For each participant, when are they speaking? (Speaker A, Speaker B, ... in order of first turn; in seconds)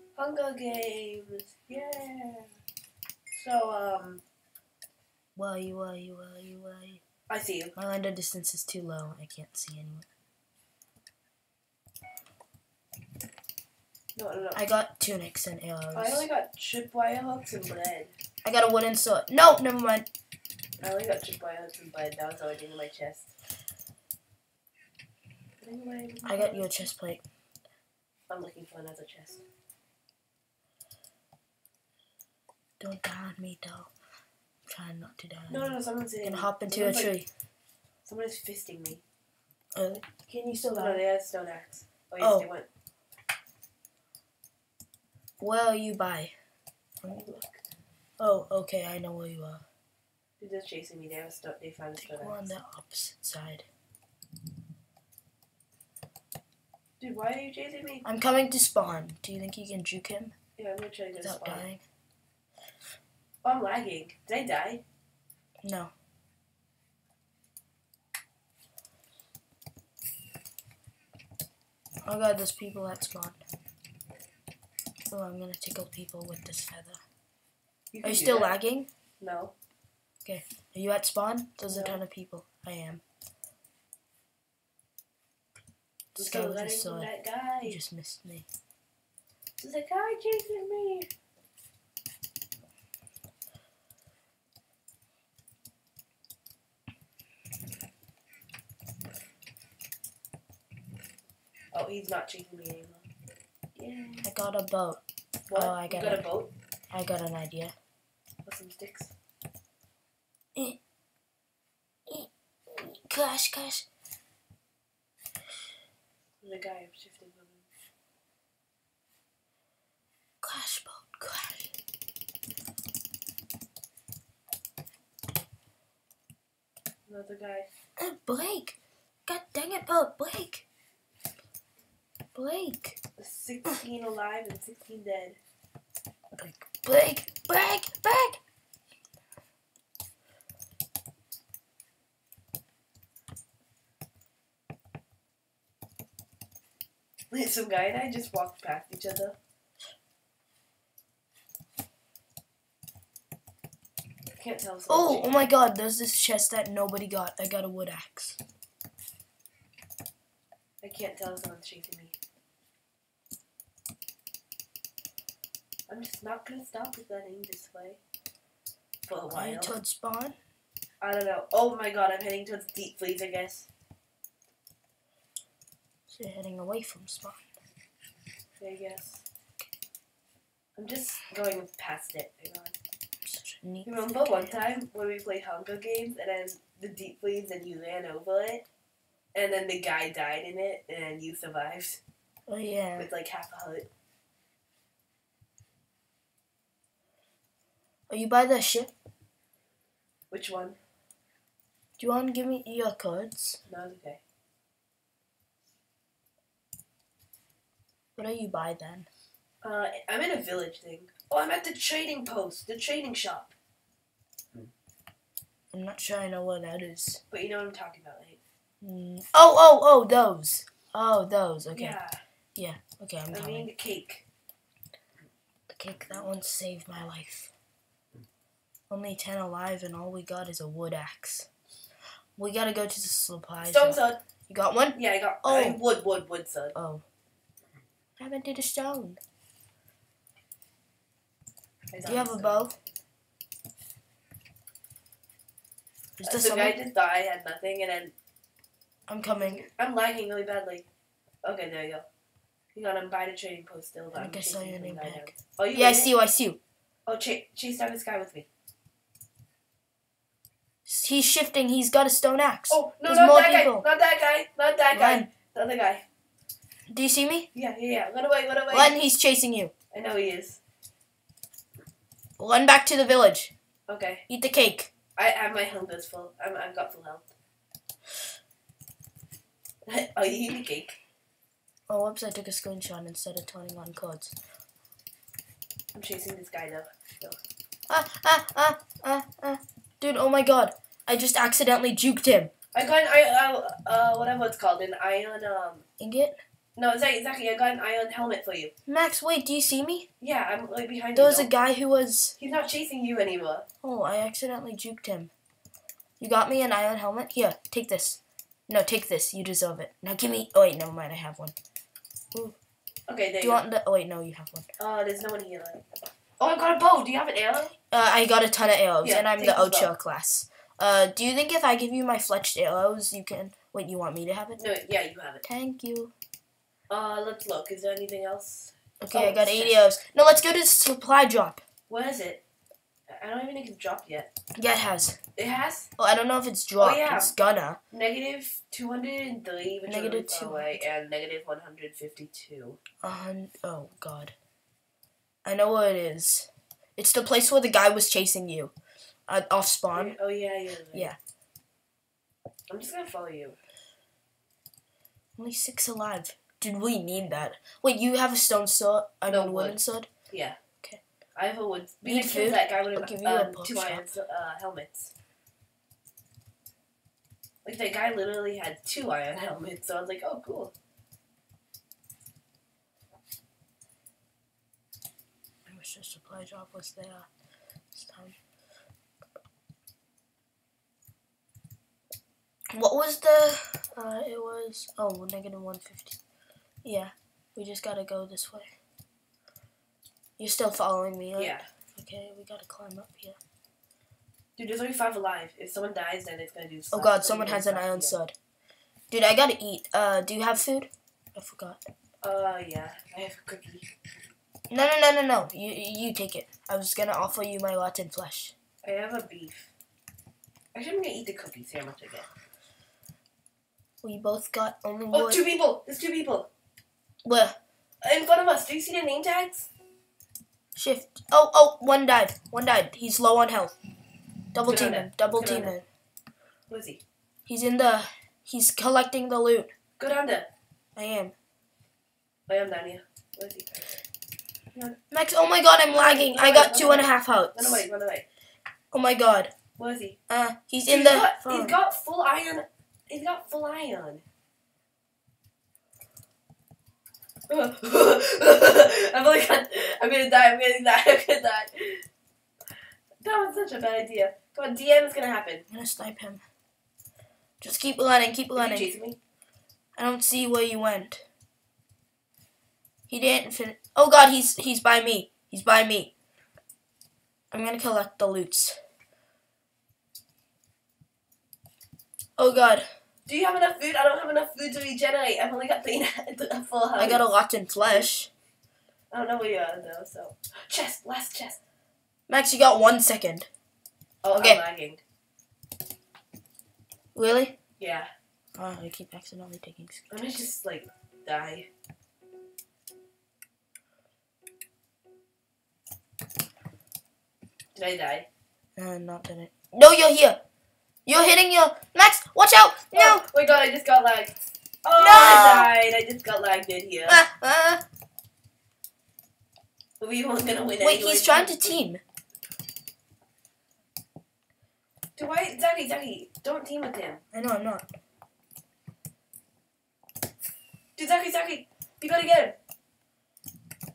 Speaker A: 0.2-2.5, 3.4-4.2, 7.3-7.8, 14.2-14.6, 15.9-18.1, 20.8-23.3, 25.6-26.9, 28.3-29.4, 35.5-37.1, 38.0-39.0, 40.7-42.7, 47.0-47.6, 50.4-52.5, 57.0-58.0, 60.6-61.7, 63.4-64.8, 77.9-78.5, 79.2-79.5, 81.7-82.0, 86.2-87.8, 89.6-91.1, 101.7-103.0, 103.8-104.3, 105.5-106.5, 108.5-109.1, 116.4-117.7, 127.1-127.7, 133.2-135.4, 147.3-149.4, 154.4-155.5, 160.8-162.2, 165.9-168.0, 169.1-169.8, 171.0-173.7, 178.6-179.2, 180.8-182.8, 183.8-188.6, 189.3-192.0, 193.0-193.9, 200.3-200.8, 203.7-204.2, 209.6-213.5, 217.3-218.4, 221.7-222.2, 223.3-224.2, 233.6-234.2, 234.9-236.8, 241.9-242.7, 246.2-248.1, 249.4-250.9, 251.4-252.1, 252.7-256.1, 257.1-258.5, 262.7-266.0, 267.5-269.0, 269.9-270.6, 273.9-274.2, 275.2-277.3, 279.9-281.0, 285.9-287.4, 292.7-295.9, 296.8-298.7, 300.2-301.5, 302.4-303.7, 313.1-313.6, 314.8-315.8, 316.4-317.7, 319.0-319.9, 324.6-325.4, 326.9-329.8, 331.9-332.4, 333.1-334.3, 335.4-335.9, 336.8-337.3, 337.9-342.8, 349.9-351.1, 352.7-353.6, 359.3-359.8, 360.3-360.6, 361.4-365.1, 367.6-370.7, 391.4-391.7, 394.6-398.2, 402.2-403.9, 408.8-409.7, 410.7-412.3, 415.1-416.5, 418.0-419.7, 424.7-425.8, 426.7-427.0, 430.0-430.5, 432.5-433.9, 436.0-438.2, 439.8-440.2, 440.9-444.2, 447.5-452.0, 453.2-455.7, 458.6-459.2, 473.3-477.3, 479.1-481.6, 484.2-485.0, 487.8-488.1, 490.1-491.7, 497.8-498.3, 502.9-507.2, 510.0-511.8, 515.2-517.2, 521.0-522.6
Speaker B: 5.4-7.0, 7.8-10.1, 14.5-16.3, 18.4-20.1, 26.2-27.2, 32.8-33.9, 34.7-37.3, 39.8-41.0, 42.2-42.5, 45.4-46.3, 48.2-49.6, 52.0-53.7, 58.0-60.3, 61.2-61.8, 65.6-65.9, 72.0-73.4, 75.1-77.0, 78.0-78.9, 80.2-83.0, 86.2-87.1, 87.6-88.5, 104.2-105.0, 105.5-106.3, 106.9-107.8, 112.1-113.9, 120.4-121.7, 128.0-130.7, 132.3-133.0, 136.3-138.4, 154.9-158.4, 169.3-170.4, 176.1-177.4, 183.2-184.4, 192.5-193.1, 198.1-198.9, 202.0-203.6, 208.2-209.1, 215.7-217.2, 218.8-222.0, 222.6-223.7, 225.7-227.5, 228.9-231.5, 232.4-235.8, 236.8-237.0, 238.2-239.2, 242.1-242.8, 246.2-246.8, 249.1-249.7, 254.2-256.6, 260.9-263.9, 264.9-265.3, 266.9-267.5, 268.7-269.7, 272.4-273.5, 274.3-274.9, 281.9-284.3, 287.9-292.5, 296.0-296.4, 298.9-300.1, 301.2-302.4, 303.8-305.3, 306.2-311.5, 313.4-314.7, 317.9-324.6, 325.4-326.1, 329.0-331.6, 334.6-335.2, 336.0-337.8, 339.9-340.9, 343.0-344.4, 345.4-348.7, 349.3-350.2, 355.4-360.1, 362.0-364.1, 375.7-377.3, 377.9-378.4, 382.7-386.2, 386.8-388.7, 390.4-393.4, 396.9-398.3, 399.1-401.9, 404.7-408.6, 414.0-415.4, 417.2-417.6, 420.8-423.8, 424.5-425.9, 427.5-429.7, 431.0-431.3, 435.1-437.9, 438.9-439.5, 440.3-441.8, 455.7-456.4, 457.6-458.9, 460.0-461.2, 463.1-466.1, 467.5-468.8, 472.4-472.9, 477.0-478.3, 482.3-483.5, 484.3-484.6, 487.1-487.6, 488.6-490.0, 498.8-500.4, 501.1-503.2, 505.0-505.7, 507.1-507.8, 510.8-512.0, 517.3-517.9